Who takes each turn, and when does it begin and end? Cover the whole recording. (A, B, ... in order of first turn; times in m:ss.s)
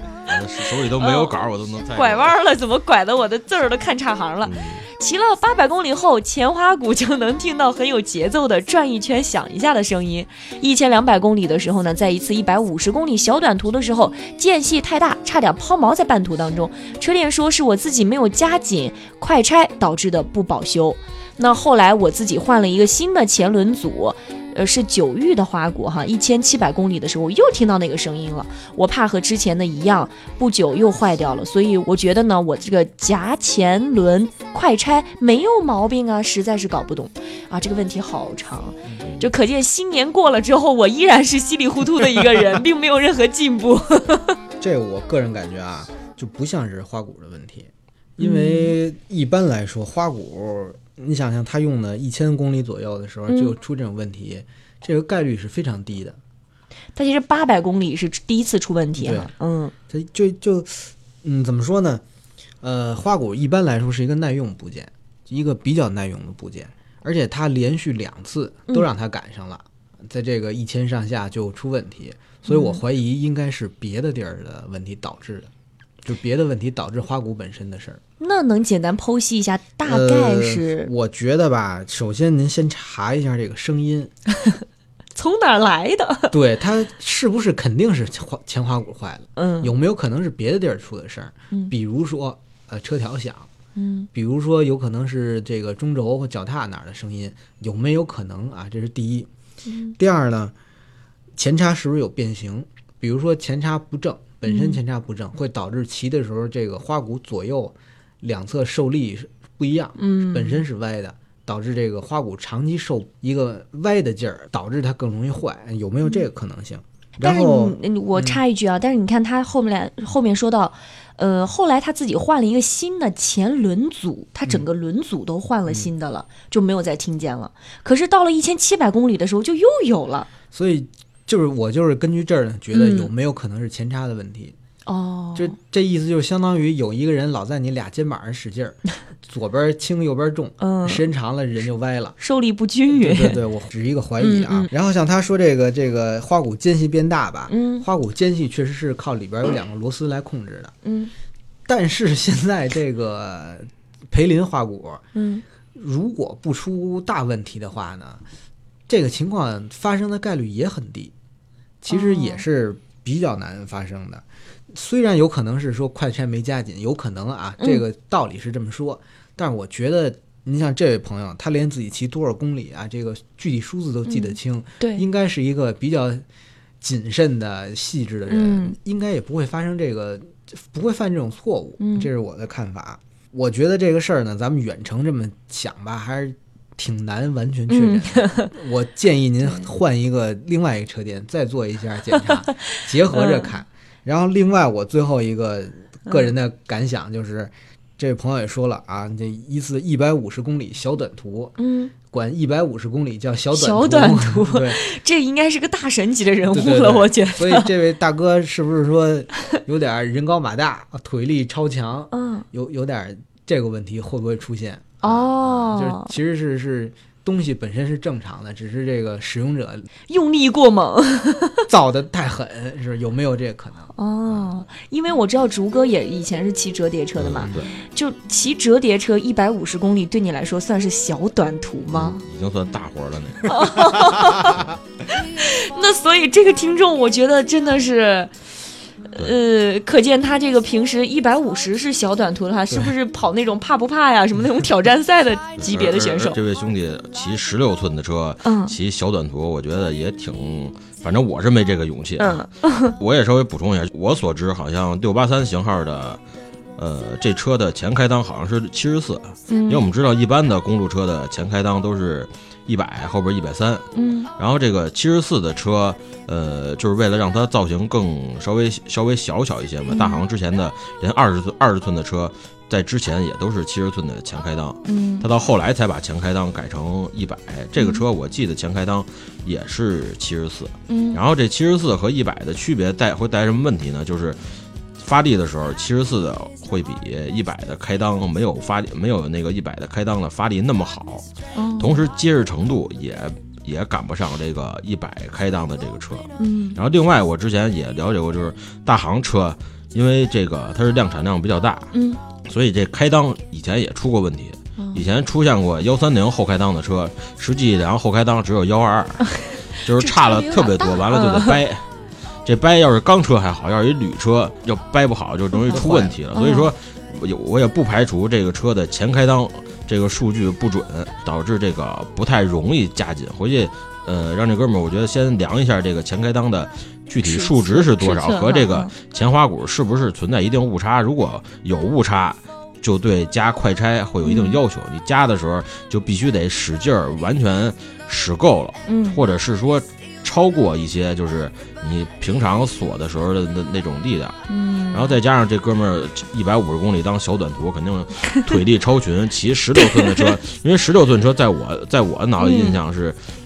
0:00.2-0:02.4 A
0:01.0-0:01.4 B
0:01.9-0:44.4 B
0:04.4-0:04.9 A
0:44.6-0:56.2 C
0:48.2-0:48.8 B
0:53.3-0:53.6 B
0:57.0-0:59.7 B
0:59.0-0:59.3 C
0:59.9-1:02.0 C
1:02.6-1:15.5 C
1:12.5-1:12.8 B
1:16.0-1:18.0 C
1:18.2-1:20.9 B
1:19.8-1:24.1 C
1:25.1-1:26.4 B
1:26.3-1:33.5 C
1:29.4-1:29.7 B
1:33.8-1:34.1 B
1:34.1-1:39.3 C
1:39.6-1:40.0 B
1:40.0-1:40.5 C
1:41.4-1:58.4 C
1:44.5-1:44.8 B
1:50.0-1:50.6 B
1:57.2-2:10.3 B
2:10.5-2:14.6 C
2:12.7-2:13.1 B
2:14.9-2:15.6 B
2:15.4-2:22.2 C
2:20.6-2:21.0 B
2:22.2-2:23.4 B
2:22.9-2:30.7 C
2:24.2-2:24.7 B
2:27.5-2:27.9 B
2:30.8-2:31.1 B
2:31.7-2:35.0 C
2:35.1-2:35.4 B
2:35.7-2:38.2 C
2:38.9-2:41.1 C
2:41.8-2:56.2 C
2:41.9-2:42.4 B
2:54.1-2:55.0 B
2:56.8-3:24.8 C
2:58.3-2:58.8 B
3:01.8-3:02.1 B
3:07.7-3:08.5 B
3:12.3-3:13.5 B
3:21.6-3:21.9 B
3:23.5-3:27.7 B
3:26.5-3:39.9 C
3:32.1-3:32.5 B
3:35.0-3:36.1 B
3:40.1-3:41.7 B
3:41.7-3:43.9 C
3:44.0-3:52.2 B
3:47.2-3:47.7 A
3:51.9-3:54.6 A
3:53.4-3:58.3 B
3:59.1-4:06.4 B
4:05.6-4:16.2 A
4:08.4-4:08.8 B
4:12.2-4:13.0 B
4:16.8-4:44.4 A
4:19.5-4:19.8 B
4:23.9-4:24.3 B
4:29.9-4:30.2 B
4:34.8-4:35.3 B
4:37.8-4:38.0 B
4:40.9-4:41.2 B
4:45.0-4:51.3 A
4:51.5-4:52.0 B
4:51.8-5:01.9 A
4:56.4-4:56.8 B
5:01.9-5:02.2 B
5:02.4-5:11.9 A
5:04.8-5:05.0 B
5:09.4-5:11.6 B
5:12.4-5:44.4 A
5:15.6-5:16.7 B
5:15.7-5:16.2 C
5:27.2-5:28.9 B
5:34.2-5:34.6 B
5:38.9-5:39.2 B
5:44.5-5:45.2 B
5:44.9-5:53.2 A
5:49.8-5:50.3 B
5:52.4-5:52.8 B